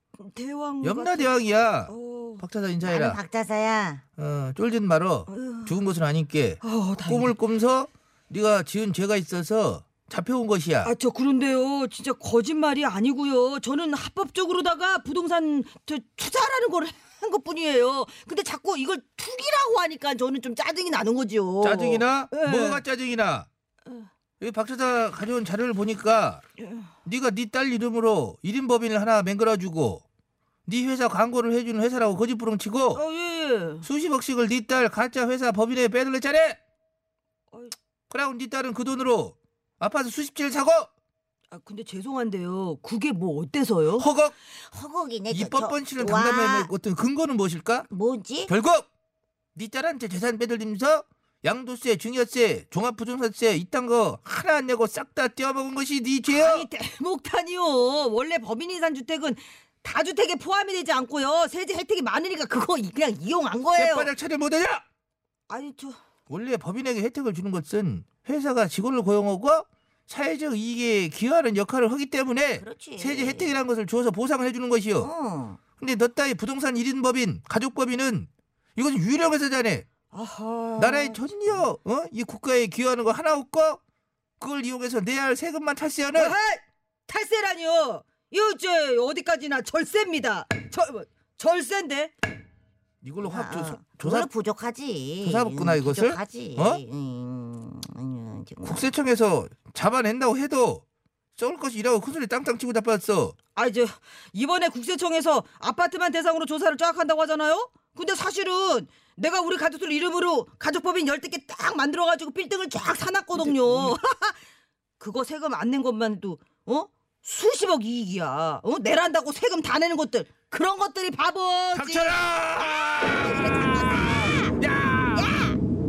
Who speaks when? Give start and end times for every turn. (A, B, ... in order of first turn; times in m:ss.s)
0:00.2-0:01.3 A
0:00.8-0:03.2 B
0:01.9-0:02.4 A
0:03.0-0:03.3 A
0:03.0-0:04.0 C
0:04.2-0:10.9 B
0:05.3-0:05.7 A
0:06.6-0:07.3 A
0:10.8-0:22.8 A
0:21.6-0:23.5 B
0:24.4-0:26.4 B
0:27.0-0:30.0 B
0:30.7-0:33.0 B
0:32.9-0:33.8 A
0:33.8-0:36.6 B
0:38.1-0:40.9 B
0:41.5-0:44.1 A
0:44.0-0:44.3 B
0:44.7-0:46.6 C
0:45.1-0:46.7 A
0:45.3-0:47.9 B
0:48.0-0:48.5 C
0:48.0-0:48.4 A
0:48.5-0:48.9 B
0:49.6-0:56.7 B
0:56.3-1:04.1 A
1:03.7-1:04.8 B
1:05.5-1:06.0 A
1:06.3-1:15.1 B
1:12.7-1:13.5 C
1:12.7-1:13.5 A
1:15.0-1:15.6 A
1:15.8-1:19.9 B
1:20.1-1:21.2 A
1:20.8-1:23.8 B
1:24.4-1:26.4 B
1:26.2-1:32.1 A
1:33.0-1:34.3 B
1:33.3-1:34.1 A
1:34.0-1:37.7 C
1:34.9-1:38.8 A
1:35.2-1:36.8 B
1:38.6-1:40.8 B
1:41.4-1:43.4 B
1:43.6-1:54.4 A
1:53.4-1:54.0 B
1:55.0-2:04.6 A
2:01.7-2:05.4 B
2:05.2-2:05.5 A